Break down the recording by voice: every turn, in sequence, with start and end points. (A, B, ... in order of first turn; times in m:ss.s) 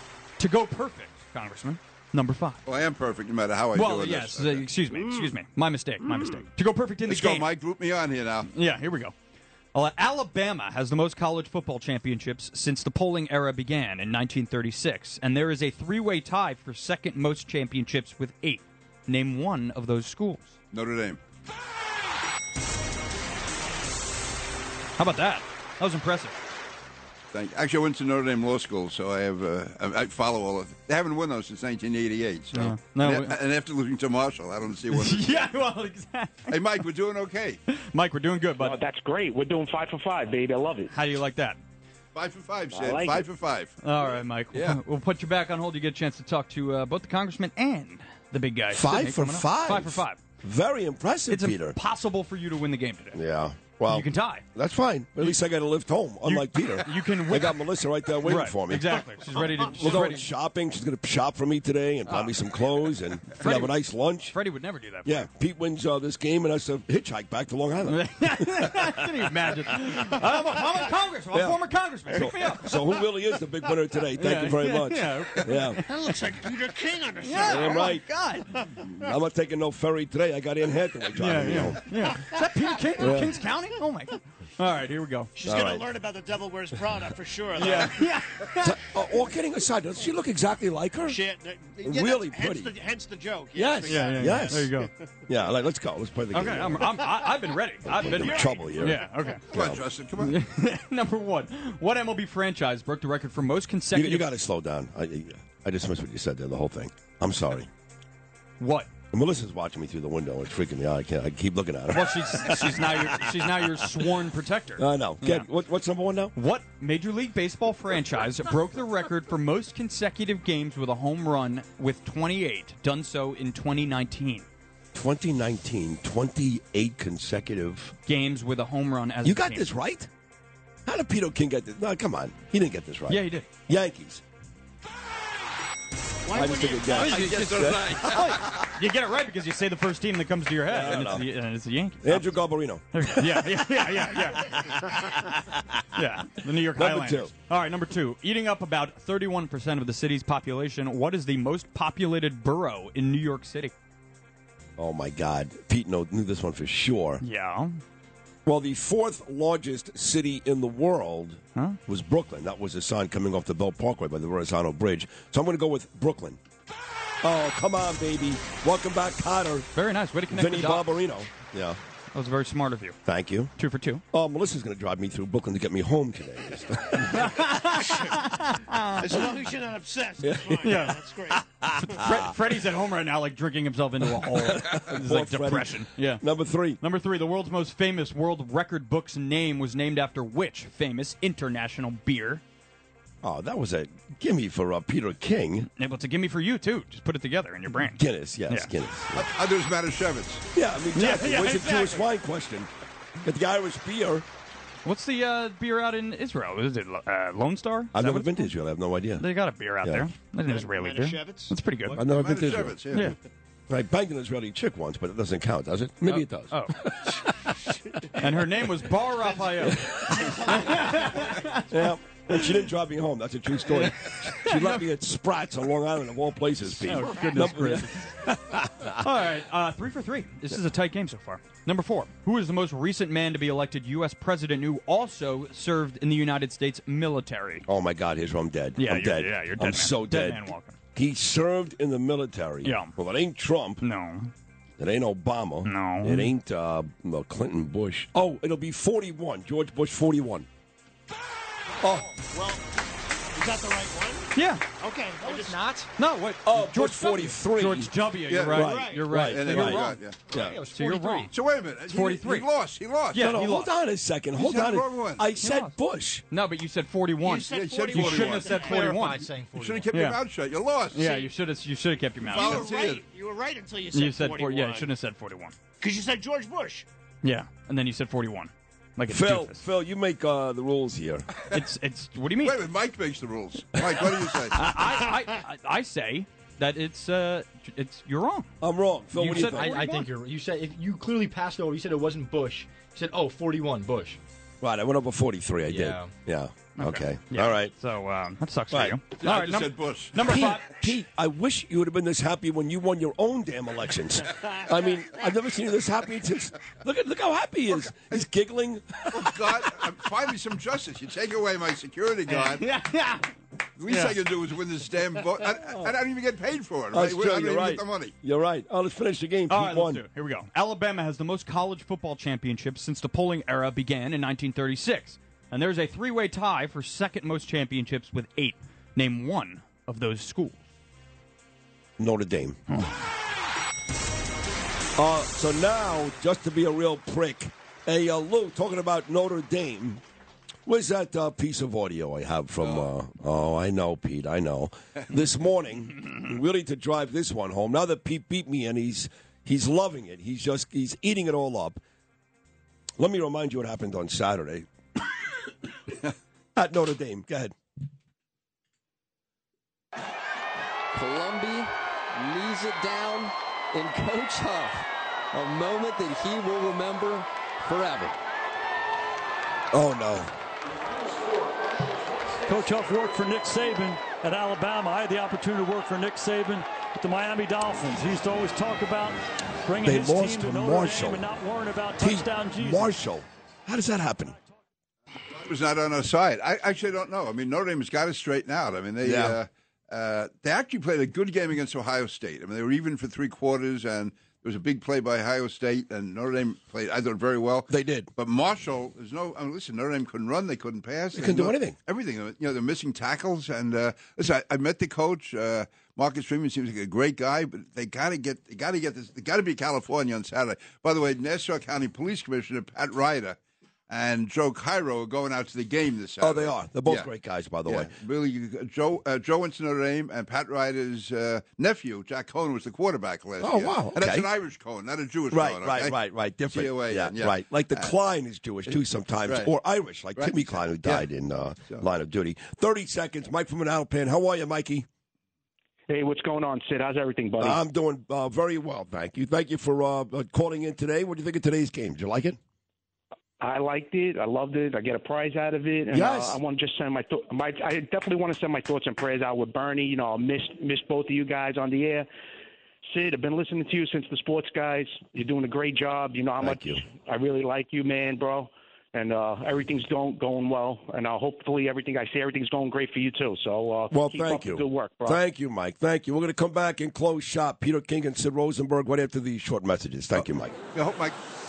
0:00.4-0:02.6 A
0:02.6-0:04.7 B
0:03.7-0:07.5 A
0:07.1-0:08.5 B
0:08.5-0:09.1 A
0:09.7-0:20.5 A
0:20.7-0:21.2 B
0:25.0-0:26.4 A
0:27.3-0:35.5 B
0:32.5-0:33.3 A
0:34.9-0:36.5 A
0:36.5-0:37.6 B
0:37.7-0:38.8 A
0:38.6-0:40.9 C
0:40.9-0:41.6 A
0:42.1-0:43.7 B
0:42.7-0:43.2 C
0:43.8-0:50.2 A
0:48.7-0:51.8 D
0:51.3-0:53.2 A
0:53.1-1:04.4 D
0:53.8-0:54.4 A
0:56.2-1:00.3 A
1:03.3-1:03.7 A
1:04.3-1:05.3 A
1:05.0-1:09.6 D
1:07.8-1:13.0 A
1:11.3-1:15.8 D
1:14.2-1:16.1 A
1:15.9-1:18.0 E
1:17.2-1:18.7 A
1:17.4-1:18.0 D
1:18.8-1:21.9 D
1:21.1-1:25.3 A
1:23.0-1:23.4 D
1:25.3-1:28.1 E
1:25.4-1:25.9 D
1:27.6-1:28.8 A
1:28.6-1:31.2 D
1:31.0-1:34.9 E
1:31.8-1:32.7 D
1:33.5-1:34.7 D
1:33.9-1:34.9 A
1:35.3-1:37.0 D
1:36.3-1:39.4 A
1:38.0-1:39.8 D
1:38.2-1:38.9 E
1:39.5-1:40.4 B
1:40.2-1:44.3 A
1:43.9-1:47.7 D
1:48.6-1:48.9 A
1:49.1-1:53.8 D
1:51.9-1:55.5 A
1:54.8-1:56.3 D
1:56.3-2:04.5 A
2:04.9-2:07.9 D
2:08.0-2:09.7 A
2:09.2-2:10.1 D
2:10.8-2:14.2 D
2:13.1-2:13.5 A
2:16.2-2:17.4 E
2:16.3-2:17.9 D
2:16.9-2:25.3 A
2:17.0-2:18.4 B
2:20.7-2:21.3 D
2:22.0-2:23.6 D
2:25.9-2:33.7 A
2:26.7-2:27.3 D
2:34.8-2:37.2 D
2:37.2-2:37.8 A
2:38.4-2:46.4 D
2:47.2-2:49.7 D
2:49.7-2:51.1 A
2:50.3-2:51.8 D
2:52.1-2:54.0 A
2:53.0-2:53.5 D
2:54.1-2:57.3 D
2:57.0-2:59.3 A
2:57.8-2:58.1 E
2:59.0-3:02.1 E
3:00.2-3:02.3 D
3:00.6-3:01.0 A
3:01.7-3:06.2 A
3:04.1-3:06.8 D
3:06.8-3:12.4 A
3:13.2-3:15.7 D
3:15.8-3:18.7 A
3:17.8-3:19.2 D
3:19.1-3:20.4 B
3:20.5-3:22.7 D
3:20.9-3:22.0 A
3:23.2-3:24.2 D
3:24.8-3:28.5 A
3:27.9-3:29.3 D
3:29.2-3:32.0 A
3:29.8-3:30.1 D
3:30.4-3:32.0 E
3:32.0-3:32.8 D
3:32.0-3:33.1 B
3:33.7-3:37.2 D
3:36.0-3:36.8 A
3:38.1-3:42.4 A
3:39.8-3:40.2 D
3:40.0-3:41.3 E
3:41.5-3:49.0 D
3:43.7-3:44.8 A
3:46.7-3:48.1 A
3:48.8-3:57.6 A
3:57.7-4:03.8 D
3:58.8-4:00.8 A
4:02.6-4:02.9 A
4:03.8-4:04.3 A
4:04.8-4:10.5 D
4:05.6-4:06.3 A
4:11.8-4:12.1 D
4:11.8-4:12.7 E
4:13.3-4:15.9 E
4:14.3-4:14.6 A
4:15.9-4:20.0 A
4:16.4-4:17.9 D
4:18.3-4:20.4 B
4:18.5-4:20.6 D
4:18.6-4:19.1 E
4:19.5-4:21.3 F
4:20.6-4:21.3 A
4:21.3-4:23.3 B
4:21.9-4:22.5 A
4:23.1-4:23.7 A
4:23.2-4:26.2 D
4:24.3-4:25.3 B
4:25.4-4:25.8 A
4:26.3-4:29.3 A
4:27.2-4:28.8 E
4:27.5-4:28.7 B
4:28.6-4:29.9 F
4:29.5-4:31.2 B
4:29.9-4:30.2 A
4:30.9-4:32.7 A
4:31.0-4:31.3 E
4:32.2-4:33.0 B
4:32.2-4:34.9 E
4:33.9-4:35.5 A
4:35.8-4:36.8 E
4:37.2-4:39.6 A
4:39.1-4:41.3 D
4:41.5-4:42.6 A
4:42.4-4:44.7 B
4:44.5-4:48.5 A
4:48.6-4:49.7 D
4:49.1-4:50.1 A
4:49.2-4:54.2 F
4:54.6-4:57.7 D
4:55.7-4:56.1 F
4:56.8-5:00.9 A
4:58.7-4:59.0 D
4:59.2-5:00.6 B
5:00.2-5:09.9 D
5:07.7-5:08.2 B
5:09.1-5:12.7 B
5:12.3-5:13.3 A
5:13.8-5:18.1 B
5:13.9-5:14.1 A
5:15.6-5:15.9 D
5:16.9-5:20.0 D
5:19.5-5:30.6 A
5:32.0-5:32.6 D
5:32.7-5:33.0 A
5:35.0-5:40.0 D
5:40.6-5:51.8 D
5:53.0-5:54.7 D
5:56.6-5:57.6 D
6:00.9-6:08.2 G
6:09.7-6:10.3 D
6:12.4-6:22.9 H
6:19.8-6:21.3 D
6:22.0-6:24.4 D
6:25.3-6:53.4 B
6:29.0-6:29.4 D
6:37.7-6:38.1 D
6:41.1-6:41.8 D
6:53.9-6:57.1 B
6:56.2-6:57.9 D
6:57.6-7:06.0 B
7:03.4-7:04.3 D
7:05.3-7:14.8 D
7:06.5-7:08.0 B
7:08.7-7:09.5 B
7:10.1-7:11.1 B
7:15.9-7:17.6 C
7:17.4-7:22.4 D
7:23.4-7:32.1 C
7:25.9-7:26.4 D
7:32.9-7:45.2 C
7:36.4-7:36.8 D
7:43.9-7:50.6 D
7:50.1-7:51.1 B